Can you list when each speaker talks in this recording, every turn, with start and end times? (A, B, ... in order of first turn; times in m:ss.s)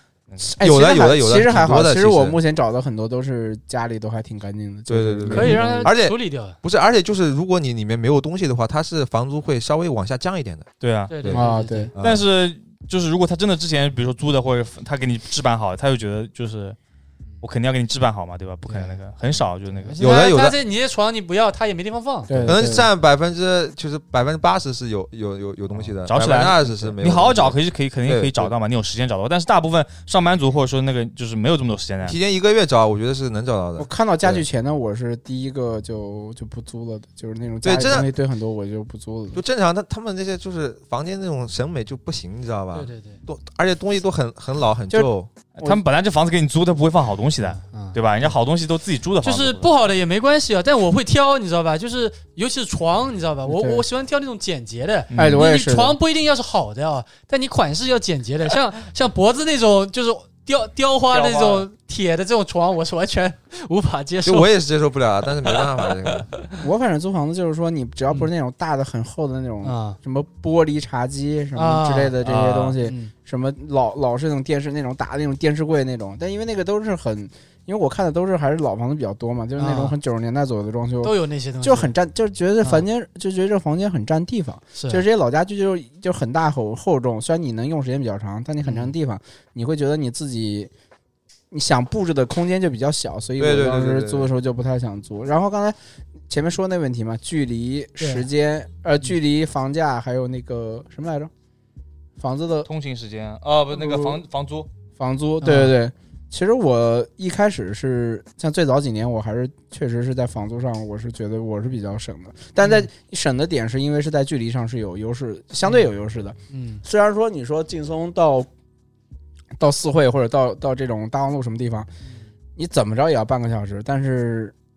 0:00.4-0:05.9 A
0:00.6-0:02.4 B
0:04.9-0:10.7 B
0:05.3-0:06.6 C
0:10.8-0:11.1 D
0:11.1-0:11.9 C
0:11.3-0:11.9 A
0:11.9-0:12.2 B
0:12.0-0:16.8 D
0:17.4-0:20.0 D
0:18.7-0:19.0 C
0:19.8-0:22.4 C
0:20.0-0:20.6 B
0:22.3-0:22.9 A
0:22.4-0:28.5 B
0:26.0-0:32.2 D
0:32.0-0:34.4 B
0:33.8-0:39.4 A
0:37.6-0:38.1 B
0:39.3-0:45.3 B
0:42.7-0:43.2 C
0:45.6-0:49.7 D
0:47.6-0:48.0 C
0:49.2-1:04.5 C
0:53.4-0:53.8 A
0:55.1-0:55.4 D
0:55.1-0:56.0 A
1:01.1-1:01.6 D
1:04.2-1:06.3 B
1:06.6-1:30.7 A
1:09.6-1:10.0 C
1:11.6-1:12.2 C
1:12.2-1:12.8 D
1:12.8-1:13.1 C
1:19.6-1:20.0 C
1:21.0-1:21.9 C
1:24.7-1:25.0 C
1:28.6-1:28.9 C
1:31.5-1:35.8 A
1:33.4-1:34.3 B
1:36.3-1:41.3 A
1:38.0-1:38.3 C
1:42.2-1:42.7 A
1:42.7-1:44.7 D
1:43.7-1:44.2 A
1:45.0-1:58.5 A
1:45.4-1:45.7 C
1:56.5-1:56.8 C
1:59.6-2:01.9 A
2:02.6-2:04.5 A